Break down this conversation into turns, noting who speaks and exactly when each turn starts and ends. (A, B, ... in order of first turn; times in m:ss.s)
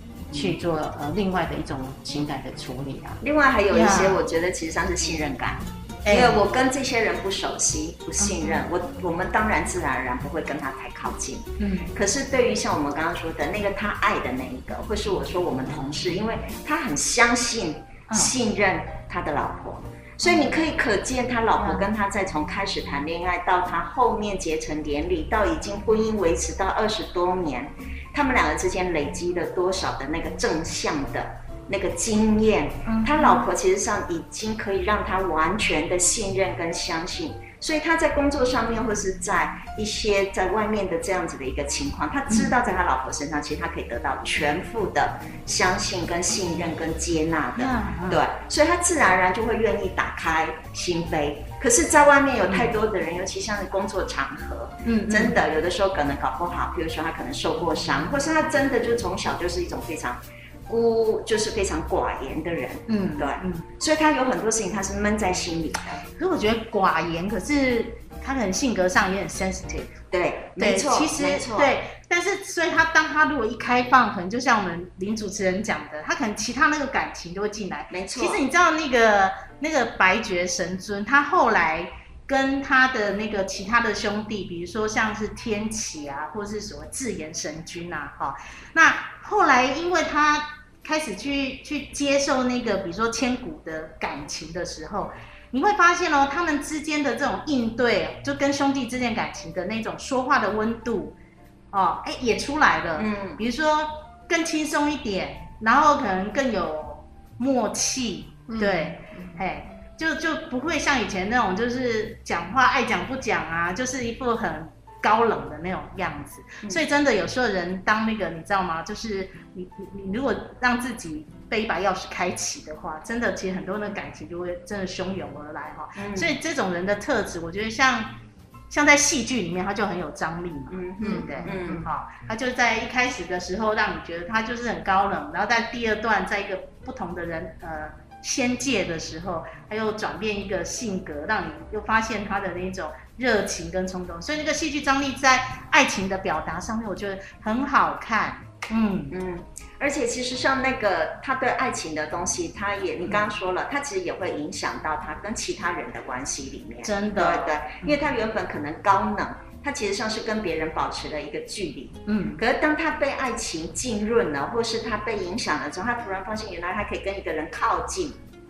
0:00.3-0:03.2 A
0:03.2-1:06.0 B
0:03.7-0:04.2 C
0:06.0-0:06.4 C
0:08.2-0:08.6 C
0:11.6-0:11.9 C
0:20.2-0:20.6 C
0:21.6-0:21.8 C
0:32.9-0:33.5 C
0:47.6-0:48.2 C
0:54.8-0:55.4 C
1:02.9-1:03.7 C
1:06.2-1:09.9 C
1:10.1-1:11.7 B
1:10.6-1:41.2 C
1:17.9-1:18.4 B
1:41.7-2:08.1 C
1:43.0-1:43.4 B
1:48.5-1:49.4 A
2:06.0-2:06.4 B
2:08.7-2:29.1 C
2:10.7-2:11.9 B
2:11.0-2:11.8 A
2:29.1-2:48.2 B
2:36.8-2:38.0 C
2:42.1-2:42.4 C